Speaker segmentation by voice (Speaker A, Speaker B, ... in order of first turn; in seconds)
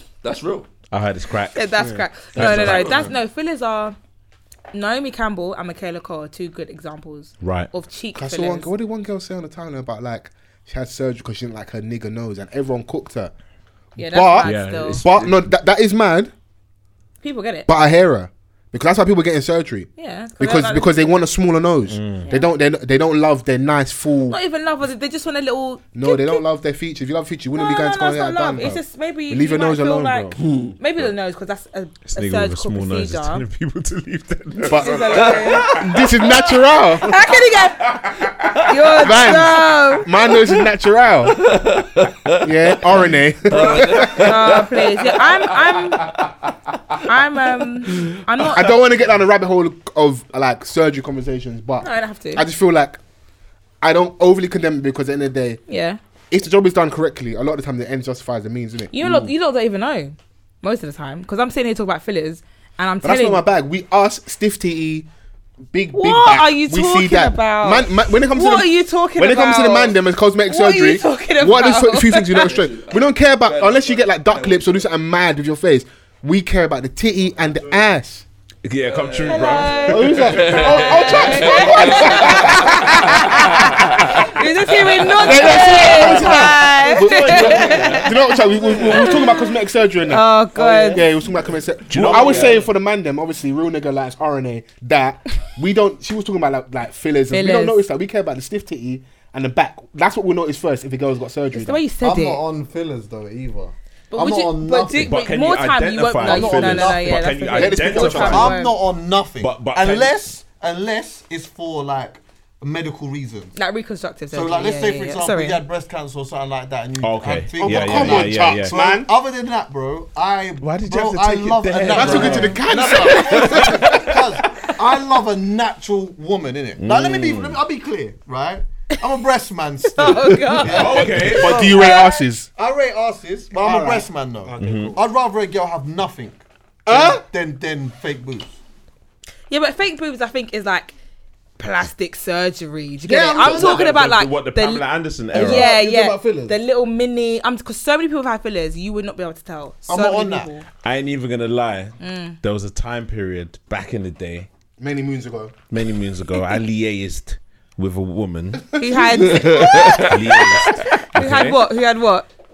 Speaker A: 0.2-0.7, 30.4-30.7, 35.1-35.8, 41.2-42.9, 43.5-45.2, 72.3-74.8, 77.5-77.8, 78.9-83.5, 84.7-89.1, 91.9-92.7, 159.2-160.1
Speaker B: 0.9-1.7, 2.3-3.1, 7.4-7.7, 14.4-15.4, 21.9-22.3, 32.1-35.7, 38.0-38.3, 78.6-84.3, 85.7-86.3, 87.6-88.0, 91.9-92.6, 104.9-108.5, 109.4-110.2, 117.0-118.8, 120.6-124.2, 126.8-127.6, 130.6-131.7, 134.6-135.0, 143.4-145.7, 150.8-154.5, 155.7-158.8, 159.8-161.7
Speaker C: 1.5-4.0, 4.7-8.7, 14.0-15.0, 17.2-17.7, 20.0-21.1, 22.2-22.5, 24.3-26.4, 27.5-33.4, 34.7-40.3, 43.6-46.1, 47.0-48.8, 51.8-52.5, 55.7-56.0, 58.9-63.4, 65.9-72.5, 79.3-91.1, 97.3-97.8, 101.5-102.4, 104.1-108.8, 113.5-115.6, 129.9-132.2, 139.5-140.9, 141.6-150.7, 152.0-152.4, 158.8-162.3
Speaker D: 1.8-3.1, 8.1-13.3, 13.9-16.3, 17.7-24.4, 25.9-30.4, 34.6-37.1, 39.0-41.5, 42.4-44.3, 48.4-53.0, 53.8-55.6, 56.3-59.2, 63.0-65.1, 65.7-78.2, 79.9-83.8, 85.2-101.8, 107.5-108.5, 117.6-119.1, 121.9-124.0, 131.0-132.5, 133.5-135.0, 136.9-137.2, 154.8-155.6
Speaker E: 102.0-105.1, 106.2-113.6, 114.3-138.6, 143.0-144.1, 145.3-146.5, 149.8-150.5